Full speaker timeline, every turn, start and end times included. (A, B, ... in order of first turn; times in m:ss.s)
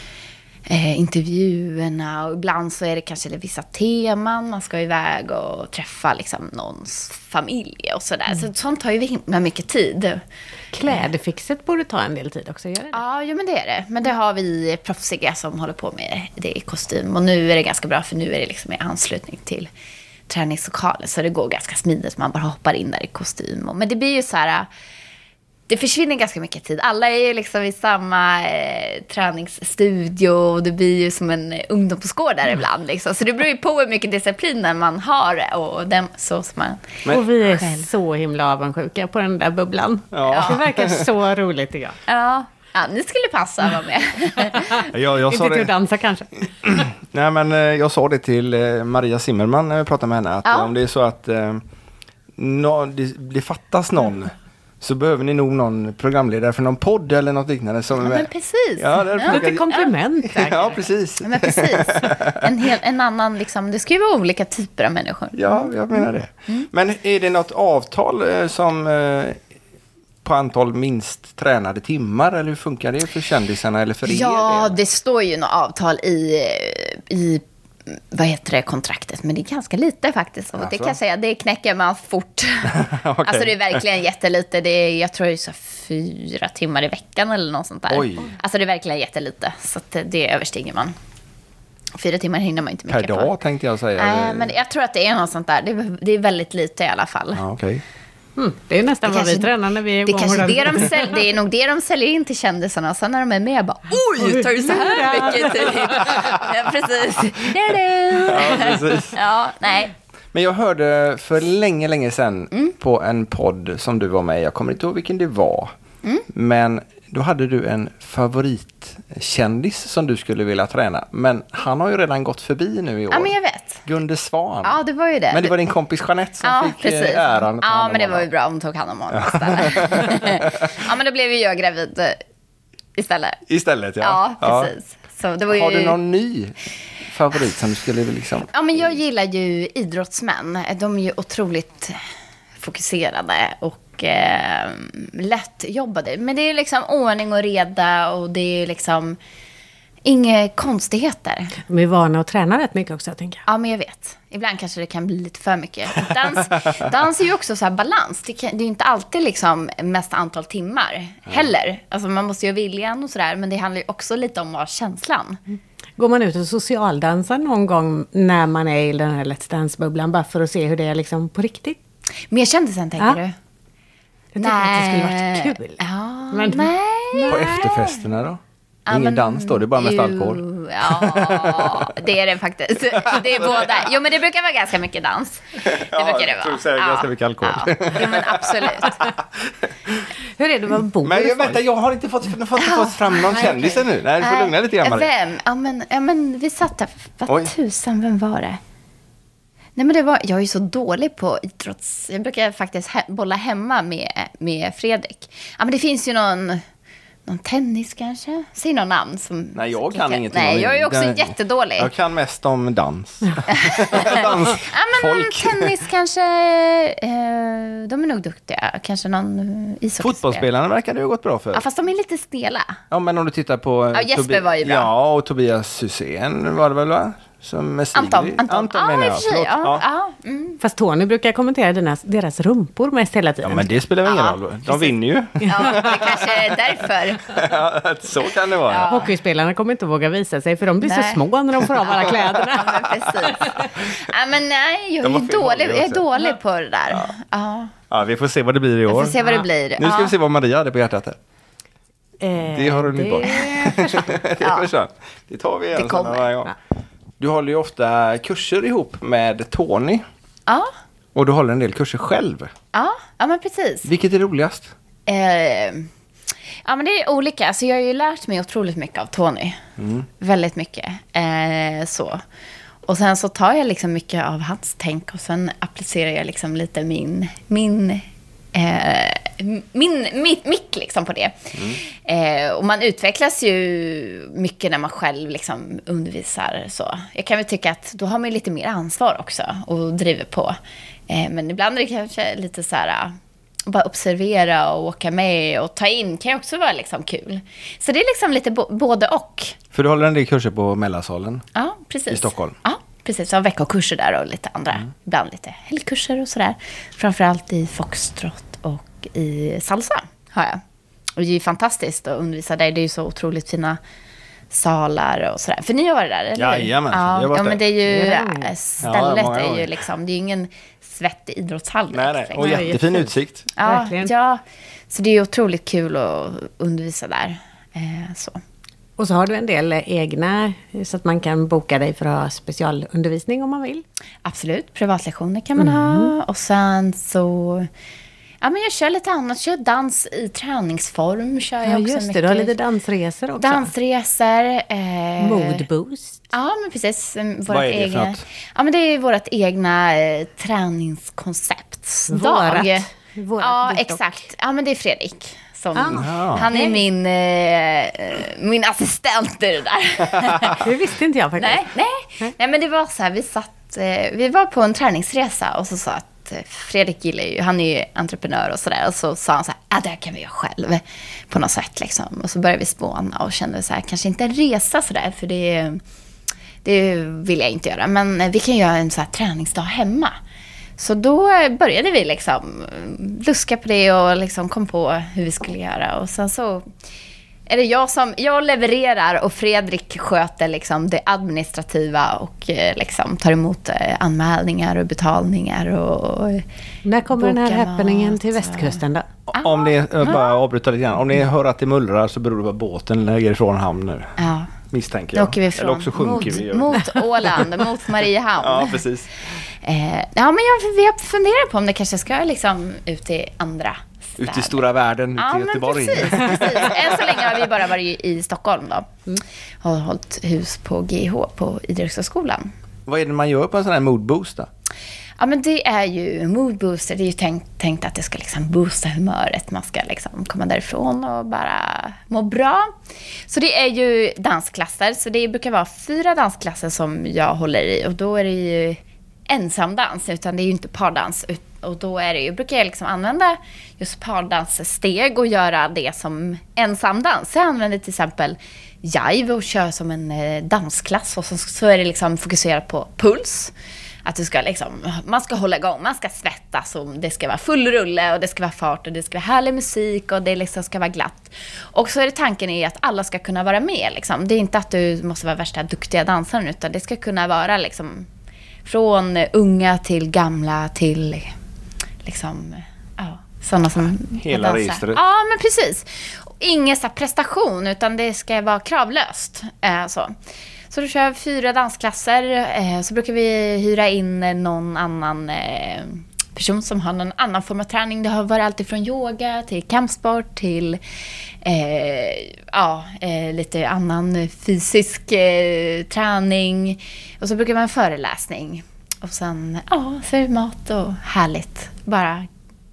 0:00.7-0:10.2 A
0:10.7-0:13.0 B
0:12.9-0:19.7 A
0:20.3-0:24.7 A
0:25.7-0:37.8 A
0:37.1-0:42.0 B
0:40.1-0:41.1 C
0:40.3-0:40.6 A
0:42.1-0:44.9 A
0:44.6-0:46.3 B
0:44.8-0:45.7 C
0:46.6-0:51.6 C
0:50.4-0:50.7 A
0:52.4-1:02.5 C
0:58.0-0:59.8 A
0:59.2-1:00.8 B
1:01.2-1:06.7 A
1:05.3-1:09.4 C
1:10.2-1:14.8 C
1:14.0-1:30.9 A
1:20.6-1:21.0 C
1:22.6-1:23.8 C
1:27.9-1:28.3 C
1:32.0-1:33.3 A
1:32.9-1:34.5 C
1:34.0-1:37.4 A
1:37.3-1:37.8 C
1:38.4-1:41.1 B
1:39.0-1:49.9 A
1:44.2-1:46.3 B
1:46.1-1:46.4 C
1:48.2-1:49.2 C
1:50.3-1:55.7 C
1:56.3-2:03.3 C
2:03.1-2:03.8 A
2:03.8-2:04.8 C
2:04.6-2:05.5 A
2:05.3-2:08.3 C
2:06.4-2:12.2 A
2:09.1-2:10.8 C
2:13.0-2:13.4 A
2:13.5-2:14.7 C
2:14.0-2:16.0 A
2:15.5-2:16.5 C
2:17.1-2:18.5 C
2:18.5-2:22.0 A
2:22.6-2:29.2 A
2:30.0-2:31.6 A
2:31.6-2:33.4 B
2:33.5-2:45.4 A
2:46.0-2:51.8 B
2:52.3-2:53.3 A
2:54.3-2:57.6 B
2:54.4-2:58.0 A
2:57.2-3:01.9 C
2:58.9-3:09.1 A
3:03.0-3:03.9 C
3:05.6-3:09.7 C
3:10.4-3:11.6 B
3:11.0-3:15.1 C
3:12.6-3:18.6 A
3:17.3-3:17.5 C
3:19.8-3:26.6 A
3:27.2-3:31.9 A
3:29.5-3:35.8 C
3:33.5-3:40.4 A
3:40.0-3:41.6 C
3:41.5-3:42.8 A
3:42.9-3:49.8 C
3:43.9-3:44.9 A
3:47.9-3:50.6 A
3:50.6-3:53.7 B
3:53.4-3:56.5 C
3:54.0-3:54.9 A
3:55.4-3:55.9 B
3:55.4-3:57.5 A
3:57.2-3:59.0 C
3:58.7-3:59.1 A
3:58.9-4:02.9 B
4:00.8-4:01.2 A
4:01.7-4:07.7 A
4:05.0-4:06.1 C
4:07.9-4:09.2 C
4:08.9-4:10.1 A
4:09.8-4:11.2 C
4:12.2-4:14.2 B
4:12.5-4:16.5 C
4:14.4-4:14.7 A
4:15.7-4:16.3 A
4:17.2-4:20.0 C
4:21.1-4:22.5 C
4:22.7-4:23.9 A
4:23.8-4:24.7 C
4:25.1-4:25.9 A
4:26.6-4:29.6 A
4:29.8-4:30.0 C
4:30.2-4:32.2 A
4:32.9-4:50.6 A
4:41.5-4:41.8 C
4:51.1-4:53.2 A
4:53.7-4:59.6 A
4:59.7-5:01.4 C
5:01.5-5:10.6 A
5:02.1-5:02.5 C
5:11.2-5:13.8 A
5:14.5-5:22.7 A
5:16.4-5:17.6 C
5:17.8-5:18.5 B
5:18.8-5:19.8 C
5:21.9-5:23.5 C
5:22.4-5:24.1 B
5:23.5-5:28.4 A
5:29.0-5:33.8 B
5:34.2-5:37.7 A
5:35.6-5:36.1 B
5:38.4-5:42.5 A
5:41.6-5:43.7 B
5:43.4-5:45.6 A
5:45.2-5:46.2 B
5:46.3-5:52.8 A
5:47.5-5:48.2 C
5:52.1-5:54.0 B
5:53.4-6:00.6 A
5:55.7-5:56.8 B
5:56.0-5:56.5 C
6:00.6-6:01.7 B
6:01.4-6:15.8 A
6:16.6-6:20.1 A
6:20.8-6:26.6 A
6:27.5-6:36.4 A
6:36.8-6:39.0 B
6:37.1-6:38.8 A
6:39.3-6:44.2 C
6:39.3-6:40.4 A
6:44.2-6:44.5 A
6:44.7-6:47.0 C
6:45.1-6:48.8 A
6:48.4-6:49.1 C
6:49.6-6:54.6 A
6:54.2-6:57.4 C
6:55.2-6:58.9 A
6:59.6-7:02.5 A
7:02.9-7:04.5 C
7:05.2-7:12.7 A
7:13.3-7:33.5 A
7:34.0-7:48.1 A
7:48.6-7:51.3 A
7:52.0-8:00.1 A
7:54.2-7:55.0 C
8:00.7-8:10.8 A
8:11.4-8:22.3 A